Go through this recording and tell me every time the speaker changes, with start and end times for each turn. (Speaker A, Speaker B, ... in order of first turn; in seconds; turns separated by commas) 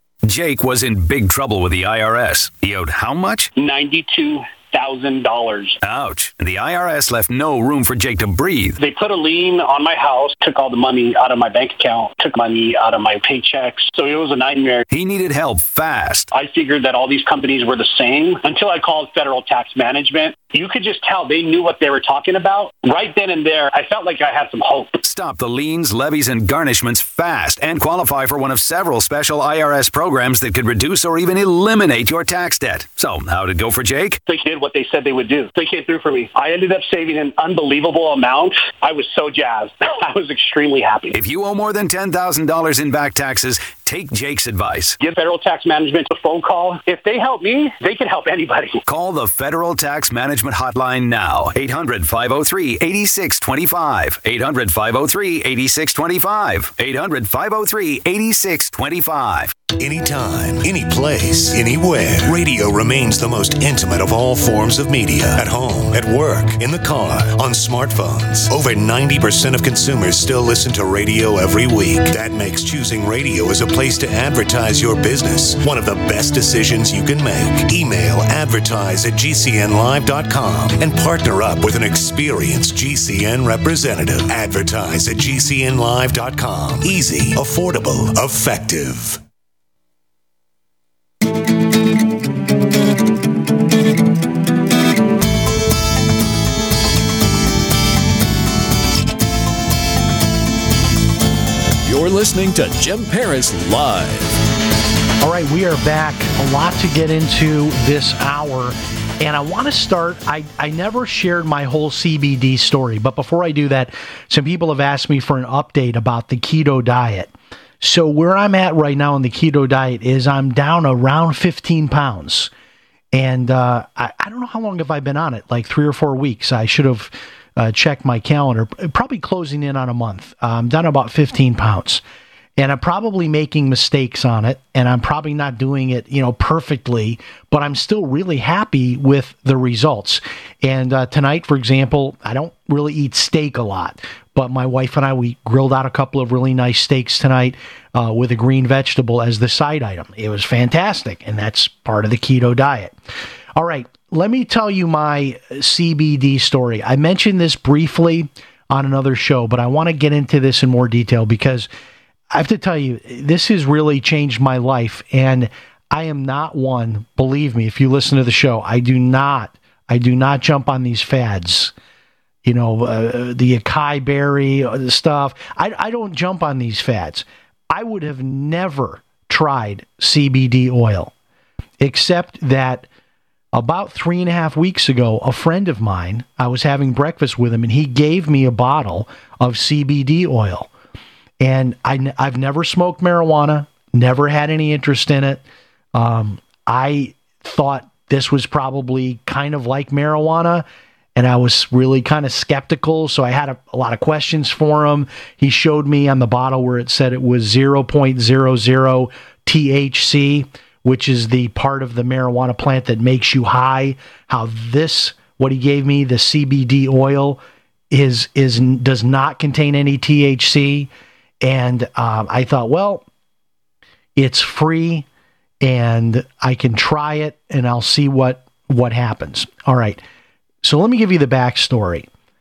Speaker A: 0.2-3.5, Speaker B: 3.6-5.8, Speaker A: 5.8-8.8, Speaker B: 8.8-14.8, Speaker A: 14.9-16.3, Speaker B: 16.3-25.0, Speaker A: 25.0-34.2, Speaker B: 34.3-41.2, Speaker A: 41.1-44.9, Speaker B: 45.0-48.8, Speaker A: 48.9-59.5, Speaker C: 59.7-89.2, Speaker D: 101.8-104.4, Speaker E: 105.2-122.5, Speaker E: 123.1-132.0, Speaker E: 132.6-152.9, Speaker E: 153.6-161.7, Speaker E: 162.3-171.7, Speaker E: 172.4-181.1, Speaker E: 181.8-182.9, Speaker E: 183.5-190.7, Speaker E: 191.4-195.4, Speaker E: 195.9-220.9, Speaker E: 221.4-223.0, Speaker E: 224.2-225.1, Speaker E: 225.6-230.0, Speaker E: 230.6-232.1